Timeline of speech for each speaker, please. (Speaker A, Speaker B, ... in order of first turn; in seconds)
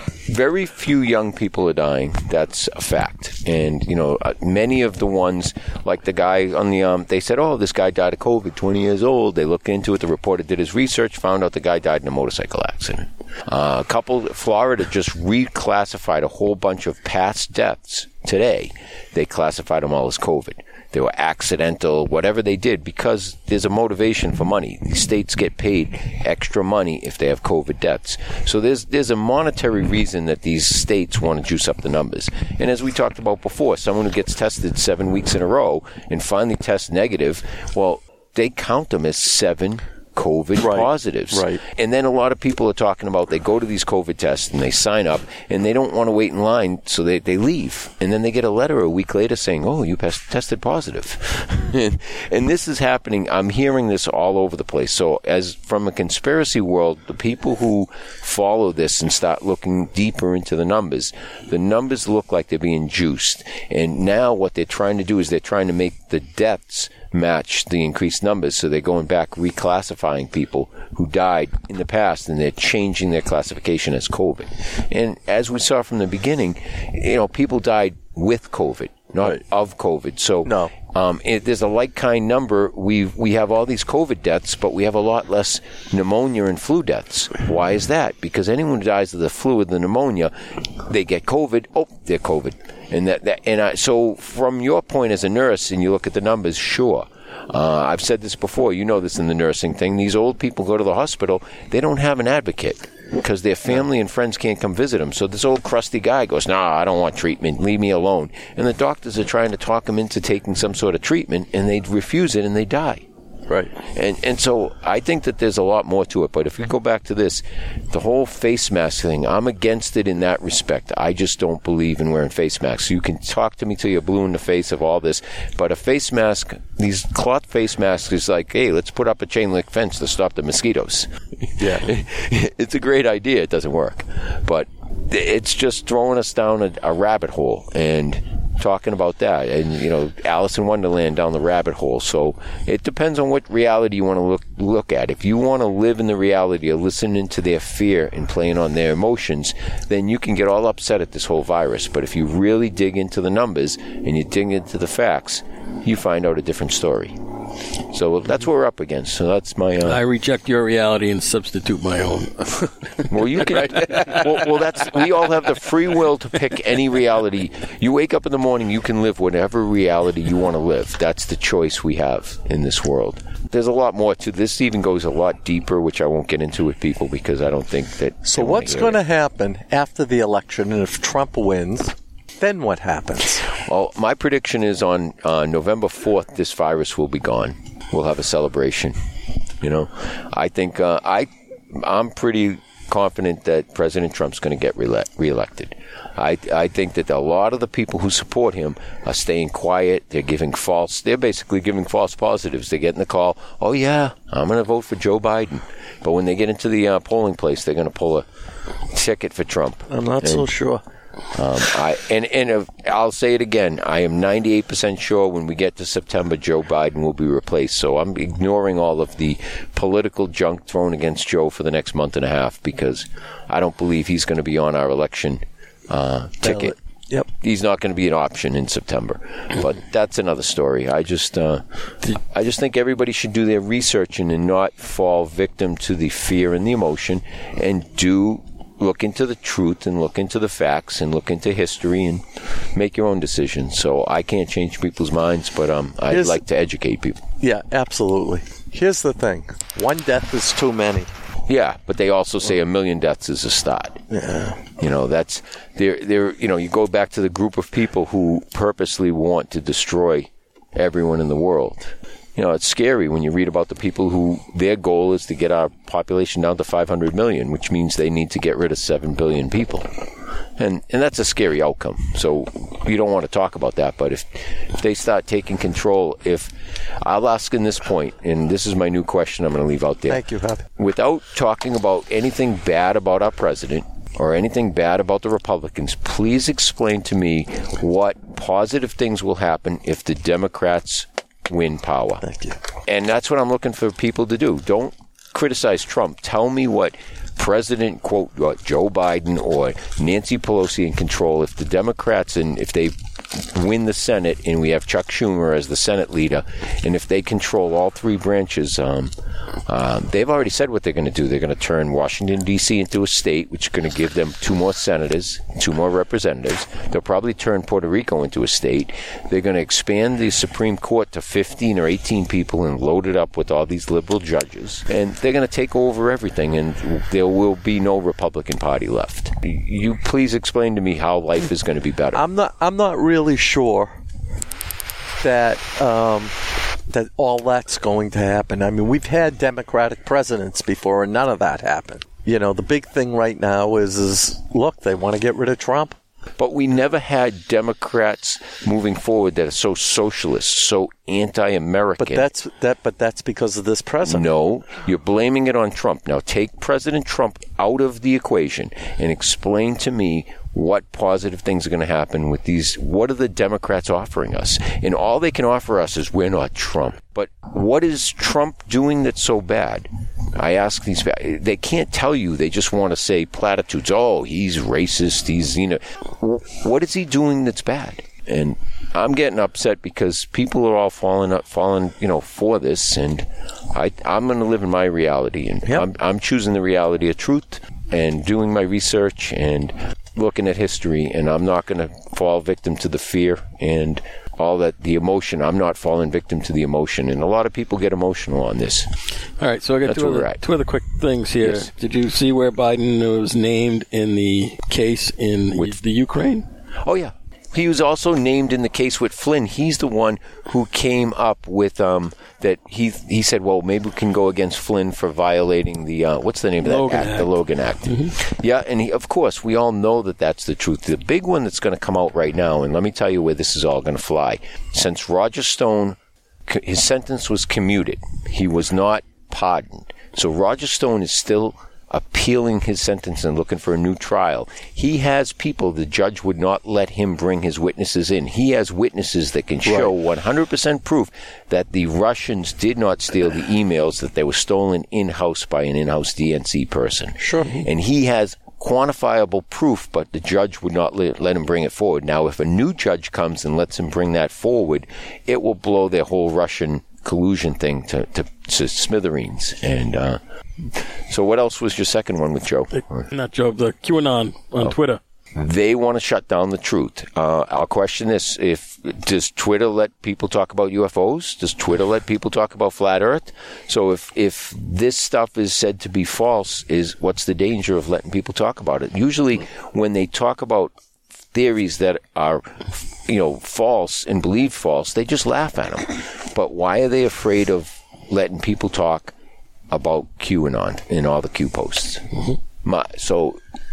Speaker A: 0.3-113.1, 113.8-157.2, 157.9-160.0, 163.1-179.0, 183.7-189.0, 189.6-208.3, 208.9-210.5, 211.3-226.8, 227.4-247.3, 251.5-254.0, 254.8-270.0, 270.6-280.2, 280.8-292.2, 292.9-309.1, 309.7-332.2, 346.4-352.3, 354.0-398.9, 399.8-400.4, 401.4-401.7, 406.8-463.1, 465.4-480.7, 481.3-489.1, 489.7-492.1, 492.6-493.4
Speaker B: 40.6-41.6, 80.4-80.7, 113.5-113.7, 131.6-131.9, 178.2-183.4, 209.9-210.8, 226.4-227.3, 246.1-246.4, 247.4-251.1, 254.1-254.6, 280.1-280.6, 292.2-292.6, 332.1-334.0, 335.2-336.4, 336.9-346.0, 352.0-354.3, 439.7-439.9, 447.2-447.6
Speaker C: 159.8-162.7, 399.4-406.5, 416.6-417.3, 417.9-418.1, 462.8-465.0